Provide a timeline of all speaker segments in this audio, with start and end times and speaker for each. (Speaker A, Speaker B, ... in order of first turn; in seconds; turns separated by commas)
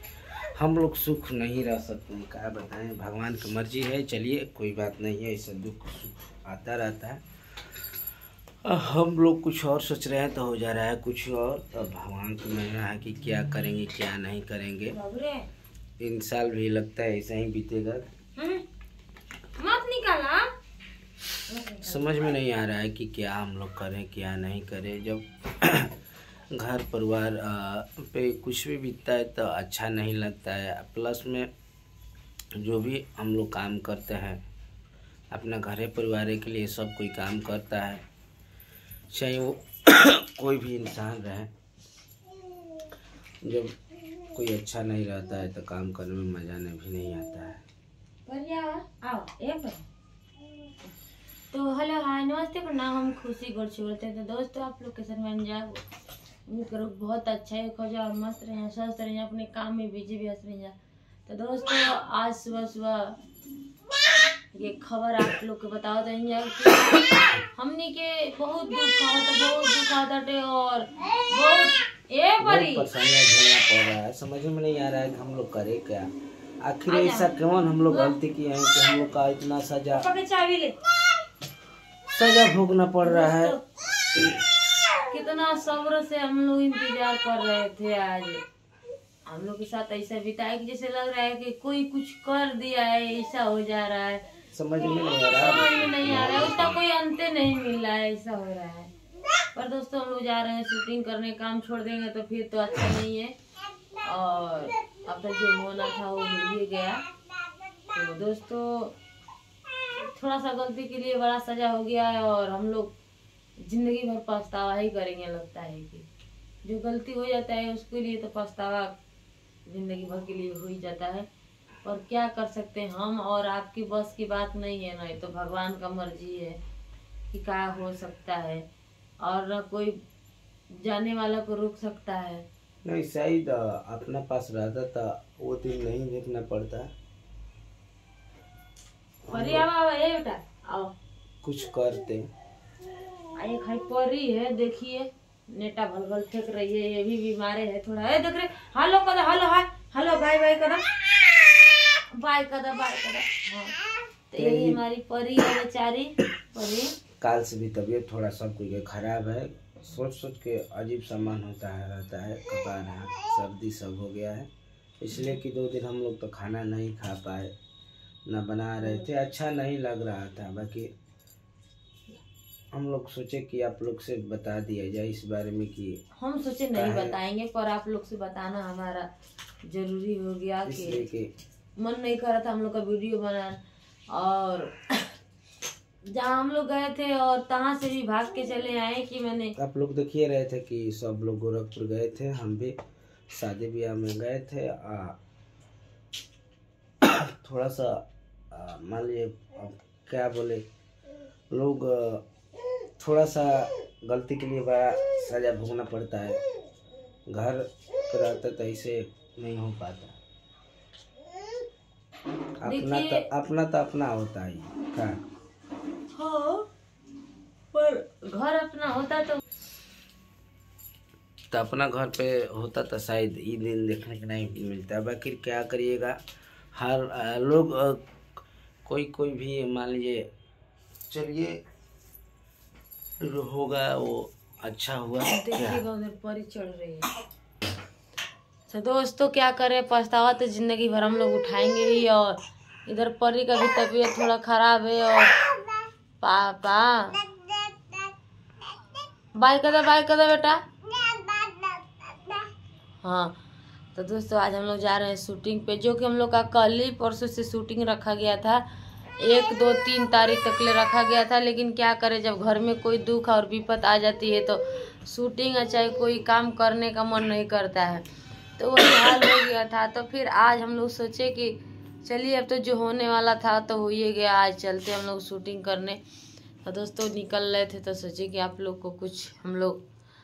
Speaker A: 0.6-7.2, Speaker A: 8.7-15.0, Speaker B: 14.9-15.5, Speaker A: 16.0-18.1, Speaker B: 18.4-18.6, Speaker B: 19.6-20.5, Speaker B: 21.5-22.2, Speaker A: 21.8-26.0, Speaker A: 26.6-31.5, Speaker A: 32.6-34.4, Speaker A: 35.3-38.0, Speaker A: 39.1-41.5, Speaker A: 43.4-43.8, Speaker A: 44.3-47.6, Speaker B: 48.3-49.8, Speaker B: 51.5-55.8, Speaker B: 56.5-63.2, Speaker B: 64.5-72.9, Speaker A: 72.4-76.1, Speaker A: 76.6-80.1, Speaker B: 76.9-77.3, Speaker B: 77.9-78.2, Speaker B: 80.0-80.8, Speaker A: 82.1-83.6, Speaker B: 83.0-83.6, Speaker A: 84.1-84.5, Speaker B: 85.1-88.4, Speaker B: 89.3-94.2, Speaker A: 94.5-96.8, Speaker B: 94.9-98.9, Speaker B: 99.5-103.4, Speaker B: 104.0-107.0, Speaker B: 107.9-109.0, Speaker B: 110.0-113.0, Speaker B: 113.6-116.1, Speaker B: 116.6-119.0, Speaker B: 119.7-121.3, Speaker B: 121.8-126.6, Speaker B: 127.3-128.7, Speaker B: 129.2-130.0, Speaker B: 130.8-132.5, Speaker A: 132.8-136.9, Speaker A: 139.3-139.7, Speaker B: 139.3-140.9, Speaker A: 141.4-142.3, Speaker B: 143.4-150.9, Speaker B: 151.9-153.8, Speaker B: 154.3-156.9, Speaker A: 154.4-154.8, Speaker A: 157.2-164.5, Speaker A: 165.0-167.5, Speaker A: 168.3-170.9, Speaker B: 168.8-169.1, Speaker A: 172.7-176.0, Speaker B: 176.2-179.1, Speaker A: 176.7-177.2, Speaker B: 179.7-181.1, Speaker A: 180.7-181.3, Speaker B: 181.8-185.2, Speaker B: 186.1-189.6, Speaker A: 189.6-192.8, Speaker A: 193.3-195.2, Speaker A: 197.0-200.7, Speaker A: 201.5-202.2, Speaker A: 203.0-206.4, Speaker A: 207.3-210.2, Speaker A: 212.6-215.2, Speaker B: 212.7-213.2, Speaker B: 216.1-216.7, Speaker B: 217.7-219.4, Speaker A: 221.5-226.2, Speaker A: 226.7-228.0, Speaker A: 228.9-230.3, Speaker A: 231.1-231.6, Speaker A: 233.2-235.8, Speaker B: 235.2-237.1, Speaker B: 238.7-245.3, Speaker B: 246.2-247.3, Speaker B: 249.3-250.7, Speaker B: 253.0-253.4, Speaker B: 253.9-258.6, Speaker B: 259.2-268.1, Speaker B: 268.6-276.0, Speaker B: 276.6-279.8